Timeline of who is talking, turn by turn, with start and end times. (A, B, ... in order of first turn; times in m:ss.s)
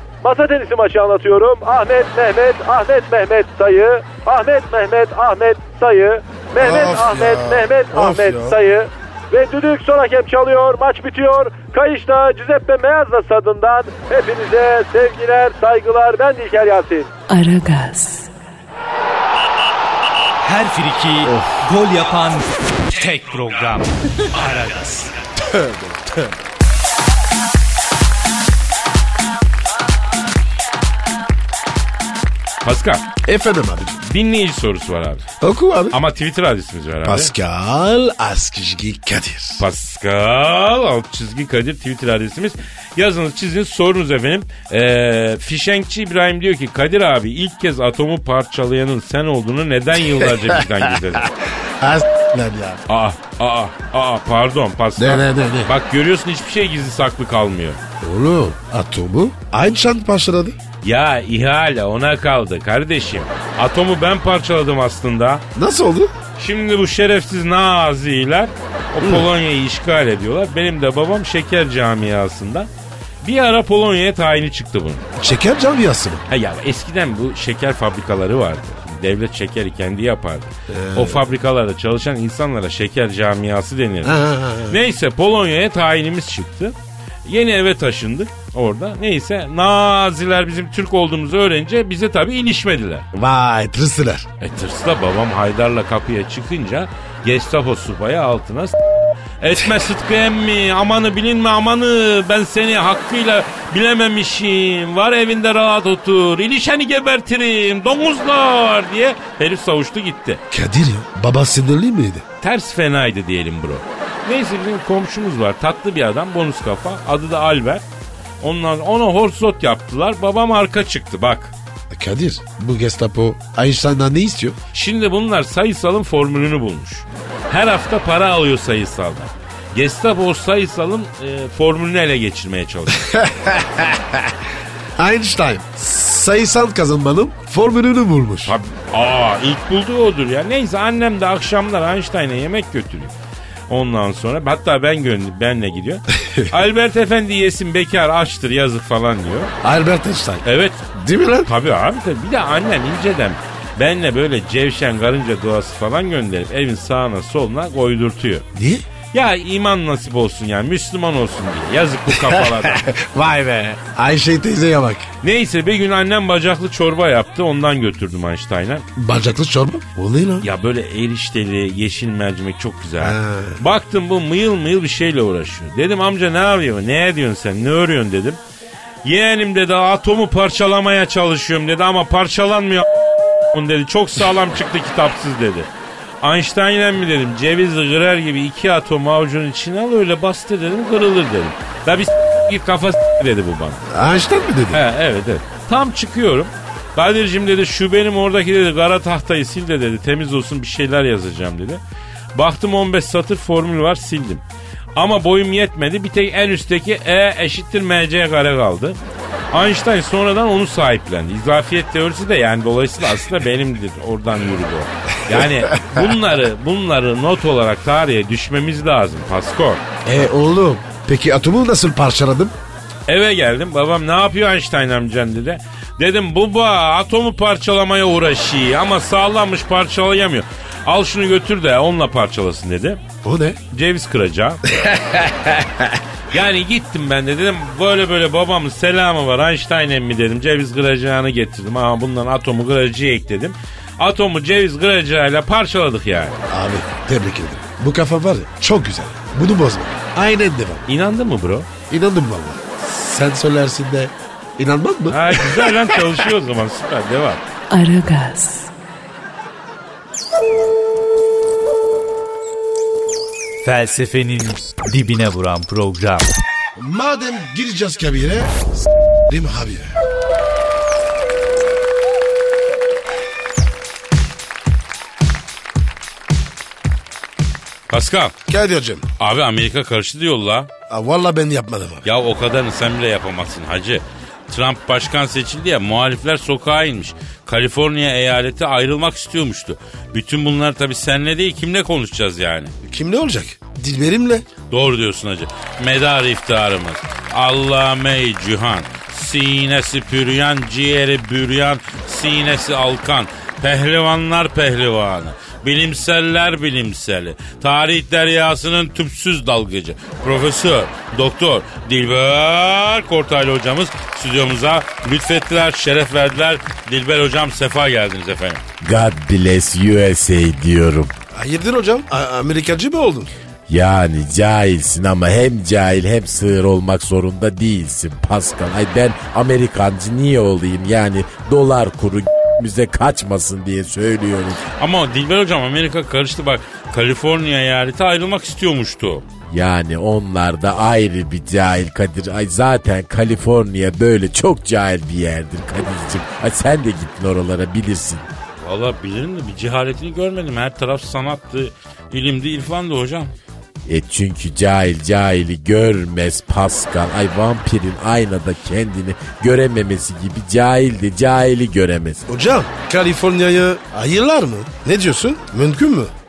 0:00.2-0:17.1 A
0:06.6-0:08.6 B
0:17.3-0:18.3 C
0:20.4-0:25.1 D
0:21.3-0:21.5 B
0:25.5-0:26.3 B
0:32.6-0:33.0 E
0:33.2-0:34.0 B
0:34.0-0:35.2 E
0:35.4-0:36.0 B
0:35.9-0:37.3 E
0:37.0-0:39.6 B
0:39.6-0:51.3 E
0:51.6-0:52.8 B
0:52.9-0:57.8 E
0:55.0-0:55.7 B
0:58.0-1:00.6 B
1:00.8-1:05.4 E
1:05.6-1:06.1 B
1:06.4-1:12.7 E
1:09.0-1:09.3 B
1:13.2-1:15.0 E
1:15.2-1:16.2 B
1:16.3-1:33.0 E
1:20.7-1:21.2 B
1:24.0-1:24.8 B
1:33.1-1:34.3 B
1:34.4-1:38.8 E
1:39.4-1:50.4 E
1:50.5-1:52.2 B
1:52.4-1:57.8 E
1:58.4-2:01.5 E
2:01.9-2:04.6 B
2:04.7-2:13.0 E
2:12.9-2:14.3 B
2:15.0-2:18.6 B
2:18.5-2:23.1 E
2:23.7-2:29.5 E
2:26.2-2:26.5 B
2:29.6-2:30.4 B
2:30.4-2:30.9 E
2:31.0-2:31.5 B
2:31.4-2:38.5 E
2:38.6-2:38.8 B
2:39.1-2:42.9 E
2:42.1-2:45.1 B
2:45.2-2:48.9 E
2:49.0-2:50.5 B
2:50.4-2:58.4 E
2:53.0-2:53.6 B
2:59.0-3:02.9 E
3:03.5-3:05.7 E
3:06.2-3:13.8 E
3:13.9-3:14.8 B
3:14.7-3:21.8 E
3:22.3-3:24.4 E
3:25.0-3:29.0 E
3:29.5-3:39.8 E
3:40.0-3:42.6 B
3:43.1-3:53.0 E
3:53.2-3:53.6 B
3:53.7-3:55.6 E
3:56.3-4:06.4 E
4:06.5-4:10.8 B
4:10.9-4:11.7 E
4:11.9-4:16.0 B
4:15.1-4:17.4 E
4:17.7-4:18.7 C
4:23.6-4:26.3 D
4:26.8-4:28.7 B
4:29.3-4:29.9 B
4:37.9-4:38.3 E
4:38.5-4:39.0 B
4:39.2-4:40.7 E
4:40.9-4:42.1 B
4:42.0-4:52.7 E
4:52.8-4:54.4 B
4:54.7-5:18.6 E
5:18.8-5:21.1 F
5:21.3-5:23.3 B
5:23.7-5:34.6 F
5:34.8-5:39.2 E
5:39.5-5:48.3 F
5:48.6-5:53.3 E
5:53.9-6:02.2 F
6:02.3-6:06.1 B